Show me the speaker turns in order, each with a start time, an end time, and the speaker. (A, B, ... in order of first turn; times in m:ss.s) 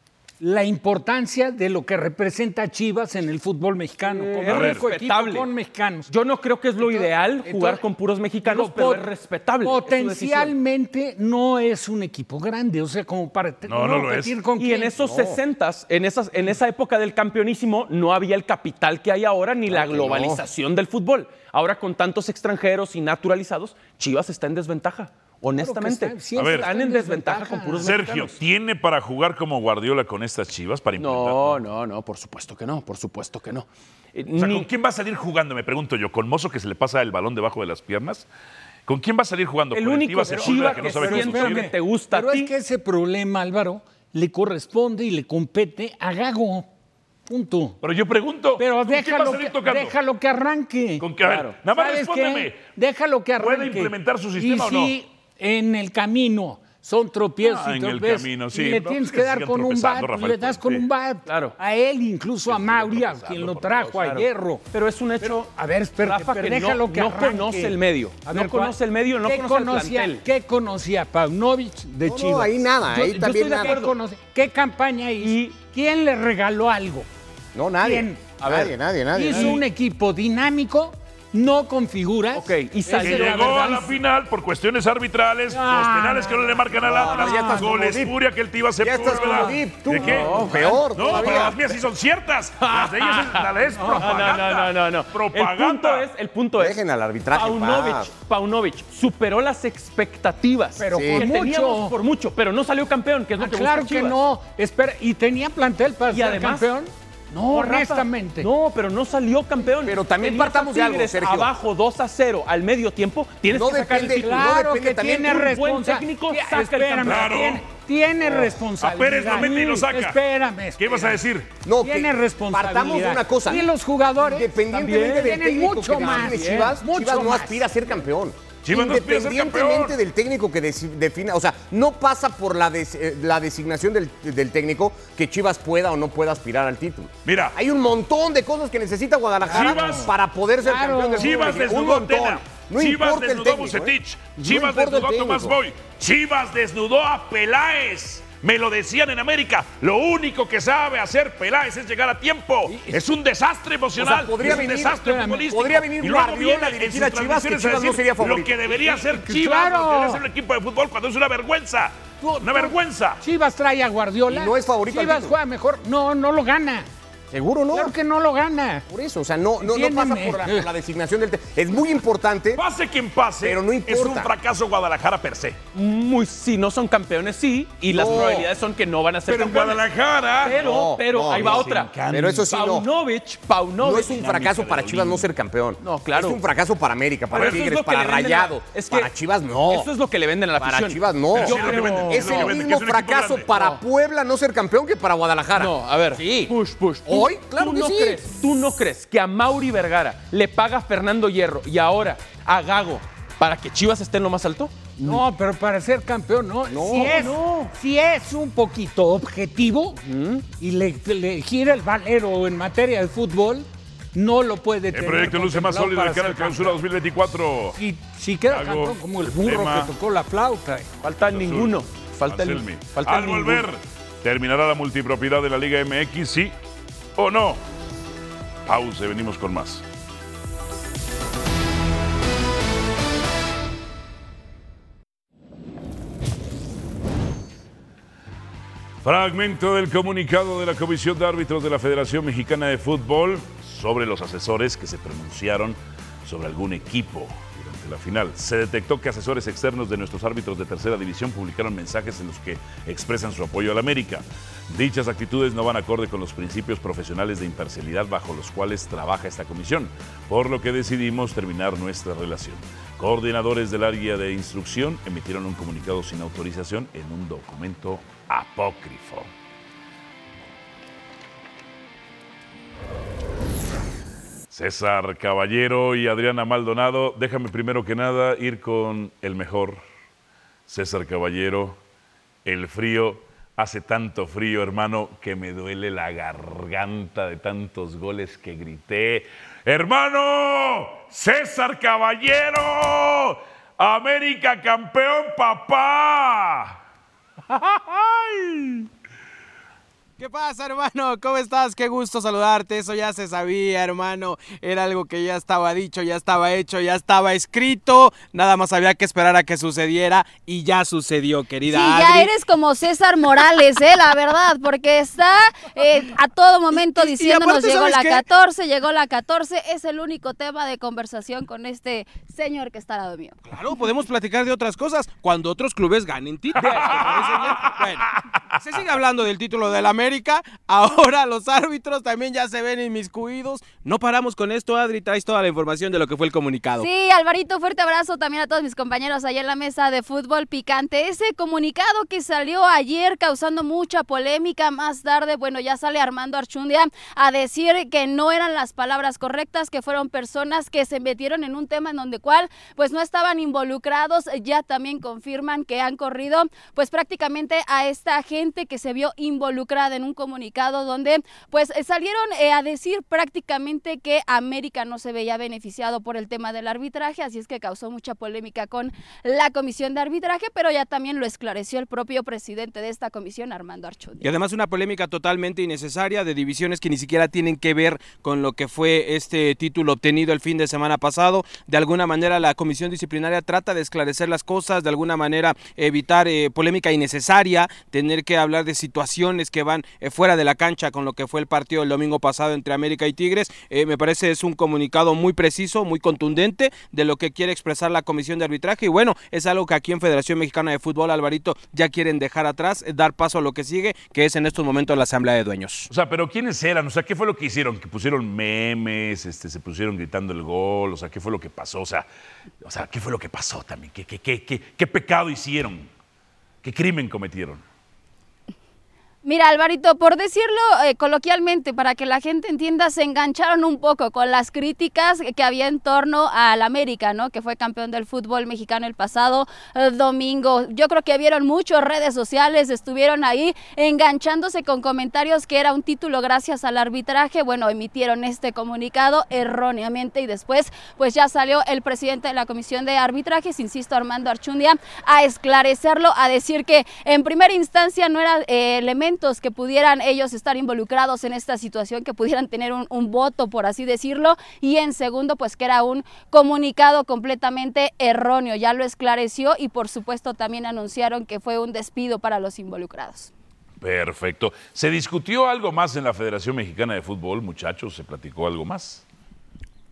0:00.4-0:06.1 A
0:04.0-0:05.5 B
0:04.5-0:04.9 C
0:06.1-0:10.6 B
0:06.8-0:07.8 A
0:08.4-0:09.1 A
0:09.6-0:14.9 A
0:13.7-0:14.4 C
0:14.6-0:28.4 B
0:15.0-0:15.4 D
0:19.7-0:20.4 D
0:25.6-0:27.9 A
0:26.4-0:26.7 C
0:27.8-0:31.6 C
0:31.0-0:34.7 B
0:34.3-0:38.2 C
0:38.9-0:41.7 C
0:39.7-0:42.5 B
0:40.3-0:46.7 A
0:47.3-0:47.8 A
0:47.8-0:49.9 C
0:48.6-0:51.0 A
0:51.0-0:52.6 C
0:51.2-0:51.5 B
0:51.7-1:04.6 A
0:53.4-0:55.0 C
0:57.4-1:00.8 C
1:01.2-1:01.5 B
1:02.5-1:03.9 C
1:03.8-1:10.2 B
1:05.2-1:17.1 A
1:12.0-1:13.8 D
1:13.0-1:13.9 B
1:15.2-1:15.6 B
1:17.5-1:19.6 D
1:17.8-1:18.2 A
1:18.4-1:19.6 B
1:19.1-1:24.0 A
1:22.3-1:23.6 B
1:23.0-1:36.1 C
1:25.5-1:27.7 A
1:26.8-1:28.2 D
1:28.8-1:31.6 D
1:29.0-1:29.6 A
1:30.1-1:31.6 B
1:32.6-1:36.8 B
1:33.7-1:34.2 A
1:36.6-1:38.1 D
1:37.3-1:44.2 B
1:40.8-1:42.0 A
1:40.9-1:41.3 D
1:43.4-1:46.9 A
1:46.1-1:46.7 B
1:47.3-1:54.4 B
1:47.5-1:48.5 A
1:49.8-1:51.5 D
1:53.5-1:55.5 D
1:53.7-2:01.2 A
1:55.2-1:57.4 B
1:57.0-1:57.6 C
1:58.8-2:00.2 C
2:00.8-2:01.5 C
2:01.6-2:25.6 D
2:01.8-2:07.7 A
2:06.0-2:06.7 B
2:08.6-2:10.0 C
2:17.2-2:17.6 C
2:19.5-2:20.1 C
2:19.5-2:20.1 A
2:20.6-2:21.6 A
2:21.2-2:43.2 C
2:32.7-2:33.0 A
2:34.0-2:38.6 D
2:34.4-2:35.4 A
2:38.7-2:40.2 A
2:42.2-2:46.9 A
2:44.3-2:45.4 D
2:47.3-2:48.0 D
2:47.7-2:48.8 A
2:48.9-2:52.6 D
2:49.6-2:50.7 A
2:52.6-2:55.6 C
2:53.4-2:54.3 D
2:55.8-2:59.8 B
2:57.9-2:58.5 D
2:59.3-3:00.6 C
3:00.4-3:01.9 B
3:00.5-3:02.9 D
3:01.3-3:02.5 C
3:02.5-3:04.4 B
3:03.8-3:09.9 D
3:04.0-3:05.3 C
3:05.8-3:06.4 B
3:07.3-3:09.1 B
3:07.4-3:07.7 C
3:09.7-3:12.6 B
3:10.6-3:16.5 D
3:11.3-3:13.5 C
3:13.5-3:13.8 B
3:15.6-3:24.8 B
3:17.0-3:18.2 D
3:25.0-3:25.2 D
3:25.0-3:30.0 A
3:26.7-3:27.2 D
3:26.8-3:27.7 B
3:30.0-3:30.4 B
3:30.5-3:36.8 A
3:34.9-3:37.8 C
3:37.8-3:40.9 A
3:38.5-3:39.9 C
3:41.0-3:43.7 B
3:41.1-3:46.6 C
3:47.2-3:47.6 C
3:48.7-3:49.8 C
3:59.0-4:29.3 C
4:34.5-4:39.8 C
4:40.7-4:41.8 C
4:42.4-4:56.8 C
4:57.7-4:58.9 C
5:00.2-5:12.3 E
5:11.7-5:23.4 F
5:16.7-5:18.3 E
5:23.5-5:36.9 E
5:26.6-5:27.2 B
5:26.6-5:28.0 C
5:36.8-6:14.3 F
6:14.2-6:45.9 E
6:45.9-6:52.1 C
6:52.6-6:55.9 C
6:56.6-6:57.6 C
6:59.2-7:43.3 F
7:43.8-7:49.0 C